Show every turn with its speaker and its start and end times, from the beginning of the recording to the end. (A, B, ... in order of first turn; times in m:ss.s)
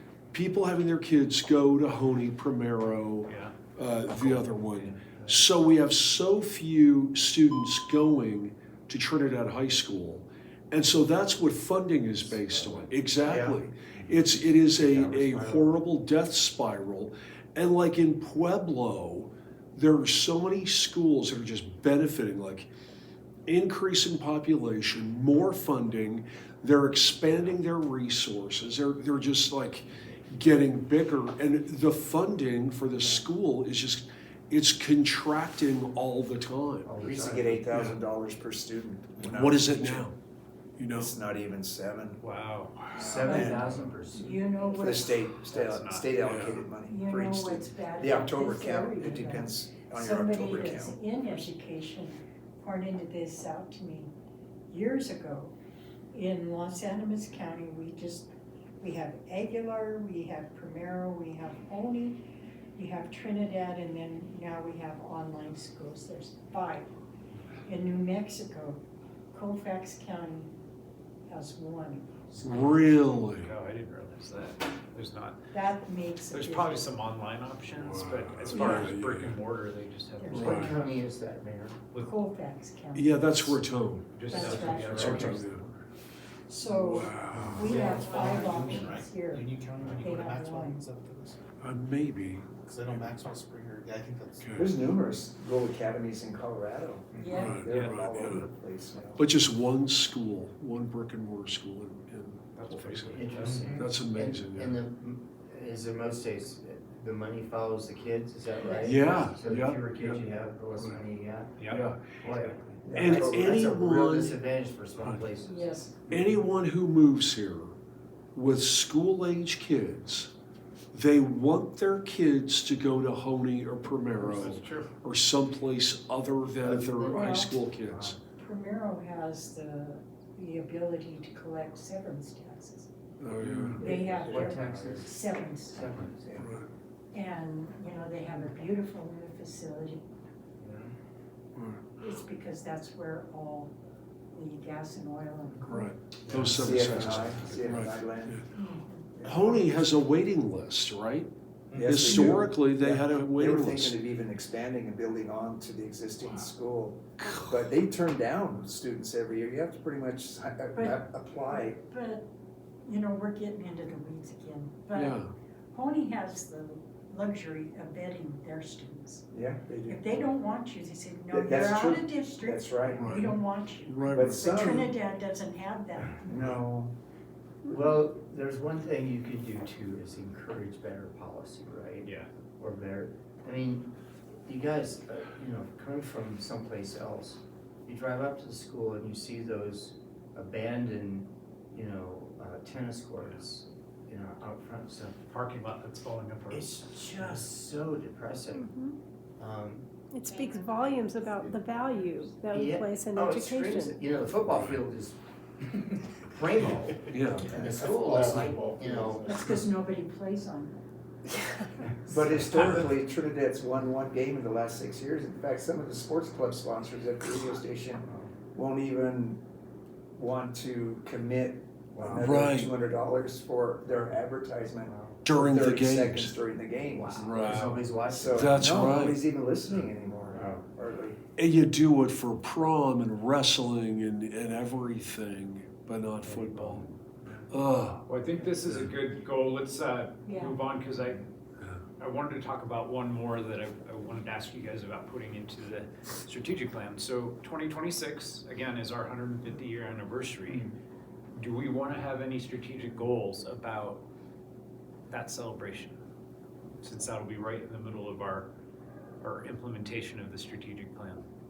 0:00.3-0:22.7 A
0:03.2-0:03.6 B
0:04.8-0:05.4 C
0:12.4-0:14.1 C
0:14.7-0:15.8 C
0:23.5-0:36.9 A
0:36.8-0:37.9 C
0:37.1-0:40.1 D
0:39.2-0:40.2 A
0:40.8-0:41.1 A
0:40.9-0:42.2 D
0:42.2-0:42.8 B
0:43.0-0:44.4 C
0:43.0-0:43.7 D
0:43.0-0:45.3 E
0:44.7-0:51.0 D
0:45.6-0:46.4 B
0:46.2-0:46.6 A
0:46.8-0:54.1 E
0:54.7-0:55.5 E
0:56.1-1:06.9 E
1:07.6-1:10.5 E
1:11.3-1:12.8 E
1:12.4-1:13.5 A
1:13.4-1:15.4 B
1:15.5-1:16.9 E
1:16.3-1:21.0 B
1:17.8-1:19.4 A
1:18.5-1:18.9 E
1:20.2-1:20.8 E
1:20.3-1:20.7 A
1:20.4-1:21.8 C
1:22.0-1:23.6 E
1:22.9-1:24.1 A
1:24.1-1:25.7 B
1:24.2-1:25.4 E
1:24.3-1:25.5 C
1:24.8-1:25.7 A
1:26.5-1:30.9 E
1:26.8-1:27.9 A
1:27.3-1:31.4 F
1:31.6-1:32.5 A
1:32.5-1:34.7 F
1:34.4-1:34.7 A
1:34.6-1:39.2 D
1:37.1-1:37.5 F
1:37.1-1:37.6 E
1:37.4-1:38.5 A
1:37.7-1:38.0 B
1:39.2-1:44.8 A
1:42.6-1:43.8 B
1:43.1-1:51.6 C
1:48.6-1:49.0 E
1:48.8-1:50.2 A
1:51.6-1:52.6 B
1:51.7-1:52.2 A
1:52.2-1:55.9 C
1:52.8-1:53.6 D
1:52.9-1:54.4 A
1:55.4-1:55.9 E
1:56.1-1:57.8 A
1:58.4-2:00.3 A
2:00.9-2:08.2 A
2:04.2-2:04.9 B
2:06.6-2:07.3 C
2:07.0-2:07.6 E
2:08.3-2:12.9 E
2:13.2-2:13.9 A
2:13.5-2:16.5 C
2:13.7-2:16.1 E
2:14.1-2:15.0 D
2:16.4-2:16.6 A
2:17.1-2:20.0 E
2:20.6-2:20.9 C
2:21.6-2:21.8 A
2:22.0-2:23.8 E
2:24.3-2:25.9 E
2:25.6-2:28.4 A
2:26.2-2:27.7 B
2:26.5-2:28.4 D
2:28.5-2:29.1 E
2:29.1-2:29.6 D
2:29.3-2:34.0 A
2:31.7-2:32.0 F
2:31.8-2:41.8 D
2:37.2-2:37.6 A
2:40.7-2:42.3 E
2:42.8-2:45.2 E
2:44.9-2:45.3 A
2:45.7-2:49.2 E
2:49.3-2:50.2 D
2:49.9-2:56.2 E
2:51.3-2:53.2 D
2:52.9-2:54.7 A
2:54.1-2:54.9 D
2:56.2-2:56.9 D
2:57.7-3:03.9 C
3:02.0-3:02.3 B
3:04.5-3:15.2 C
3:13.2-3:13.5 B
3:15.3-3:17.4 B
3:16.5-3:18.7 C
3:18.5-3:19.0 G
3:19.4-3:19.9 C
3:20.1-3:24.0 G
3:20.3-3:22.1 E
3:22.5-3:25.2 C
3:26.3-3:29.4 C
3:27.1-3:27.6 A
3:27.4-3:27.9 D
3:27.6-3:29.6 F
3:29.2-3:30.8 E
3:32.1-3:32.8 C
3:32.1-3:39.4 D
3:32.5-3:32.8 A
3:38.0-3:38.4 C
3:40.2-3:47.2 D
3:42.0-3:42.3 C
3:42.2-3:42.7 A
3:44.8-3:45.4 C
3:45.2-3:46.4 A
3:46.8-3:48.6 C
3:47.2-3:47.7 A
3:47.4-3:47.8 B
3:48.1-3:51.2 D
3:48.3-3:49.2 A
3:50.3-3:50.6 C
3:51.4-3:56.9 A
3:56.2-3:57.0 B
3:57.5-3:58.0 A
3:58.1-4:01.3 B
4:00.2-4:00.6 E
4:02.0-4:10.7 B
4:11.4-4:14.0 B
4:15.1-4:16.0 B
4:16.8-4:18.5 B
4:19.2-4:21.2 B